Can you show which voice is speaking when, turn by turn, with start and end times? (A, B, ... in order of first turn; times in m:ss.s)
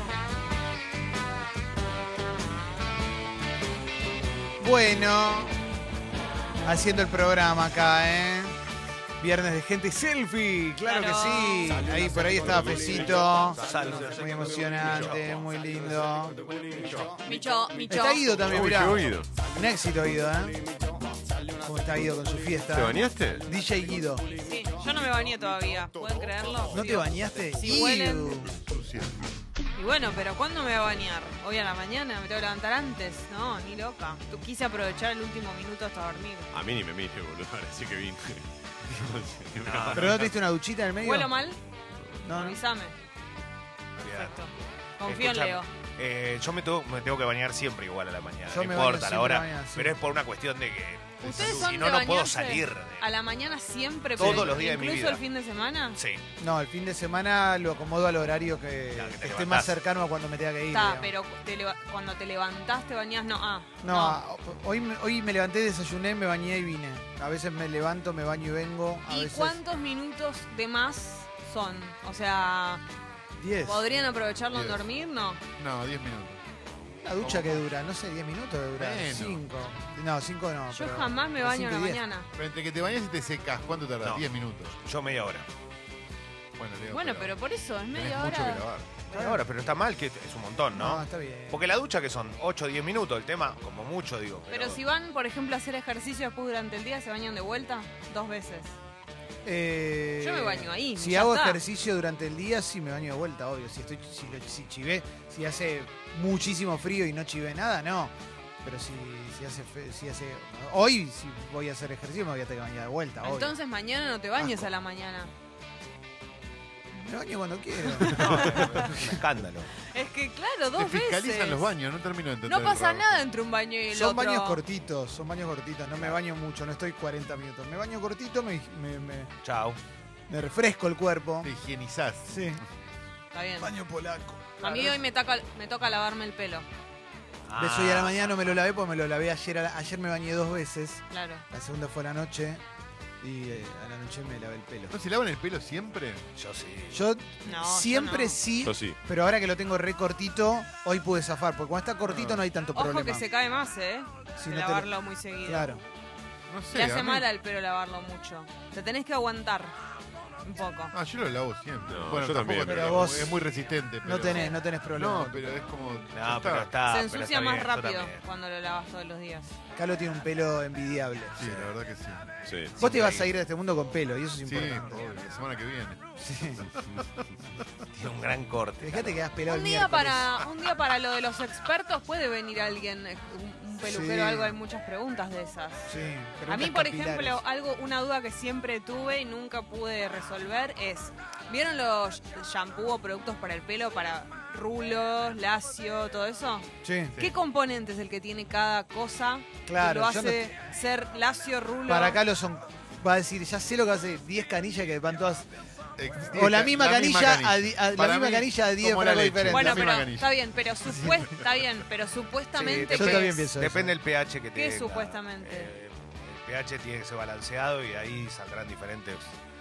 0:04.6-0:05.5 A
0:06.6-0:08.6 A
0:09.2-0:17.1 A
0:10.8-0:11.8 B
0:12.5-0:13.2 C
0:13.4-0:15.5 D
0:17.2-0:18.4 B
0:17.9-0:20.6 A
0:18.4-0:19.3 C
0:21.6-0:24.3 A
0:22.7-0:23.4 C
0:24.3-0:28.5 B
0:26.0-0:26.6 E
0:26.7-0:28.5 A
0:28.5-0:29.2 E
0:29.7-0:36.5 B
0:36.5-0:40.3 C
0:39.6-0:40.3 D
0:39.9-0:41.3 A
0:41.0-0:41.6 B
0:42.2-0:42.6 A
0:42.2-0:42.9 B
0:44.0-0:44.3 D
0:44.0-0:45.7 B
0:45.0-0:53.0 D
0:48.5-0:50.0 A
0:51.2-0:56.0 B
0:51.3-0:51.6 E
0:54.2-0:55.2 D
0:54.2-0:54.5 A
0:56.0-0:56.2 D
0:56.4-1:01.1 A
0:58.9-0:59.8 D
1:00.7-1:04.2 B
1:03.8-1:09.6 A
1:09.1-1:12.8 B
1:13.4-1:13.9 A
1:13.6-1:15.4 B
1:14.5-1:14.8 E
1:15.6-1:16.4 E
1:17.0-1:22.0 A
1:17.2-1:17.5 E
1:18.8-1:19.4 E
1:20.7-1:22.3 B
1:22.4-1:24.7 E
1:24.8-1:25.4 D
1:26.6-1:27.3 E
1:26.9-1:28.6 B
1:27.9-1:28.9 E
1:29.1-1:34.8 D
1:29.1-1:29.4 A
1:30.7-1:31.6 A
1:34.5-1:38.7 B
1:39.4-1:53.5 A
1:40.2-1:41.6 B
1:53.2-1:55.3 B
1:54.4-1:54.6 A
1:56.9-1:59.2 A
1:58.1-1:59.7 D
1:58.1-1:58.6 B
1:59.9-2:01.7 B
2:00.8-2:03.2 E
2:02.4-2:04.6 B
2:03.9-2:09.3 A
2:09.4-2:09.8 D
2:10.3-2:11.5 A
2:11.4-2:12.6 E
2:12.3-2:12.6 A
2:13.3-2:13.7 B
2:13.6-2:15.0 A
2:14.6-2:16.6 B
2:17.5-2:18.4 D
2:17.6-2:22.6 A
2:21.1-2:21.4 B
2:23.2-2:24.9 A
2:24.9-2:26.2 E
2:26.4-2:27.0 D
2:26.9-2:33.2 A
2:27.4-2:28.4 B
2:28.6-2:29.0 C
2:32.1-2:32.4 E
2:32.7-2:35.7 B
2:34.4-2:34.9 A
2:35.4-2:35.8 A
2:36.5-2:37.3 E
2:36.7-2:39.7 B
2:40.4-2:40.9 B
2:40.9-2:46.7 E
2:41.9-2:43.1 C
2:42.6-2:43.4 A
2:44.0-2:45.6 A
2:46.1-2:48.2 D
2:46.9-2:49.5 B
2:49.8-2:51.5 A
2:51.4-2:52.3 E
2:51.4-2:51.7 D
2:52.5-2:52.8 C
2:52.7-2:53.3 D
2:52.8-2:55.0 A
2:54.4-2:56.0 E
2:56.2-2:56.7 A
2:56.8-2:57.1 E
2:57.9-2:59.2 D
2:58.8-3:00.4 A
2:59.5-3:05.9 B
3:03.8-3:04.6 A
3:05.8-3:07.4 A
3:06.5-3:22.2 B
3:16.8-3:17.2 A
3:19.6-3:20.4 A
3:21.9-3:25.5 A
3:26.0-3:30.3 E
3:26.3-3:30.0 A
3:29.5-3:33.5 B
3:30.8-3:31.3 A
3:32.5-3:39.2 D
3:32.9-3:33.9 A
3:34.5-3:35.7 B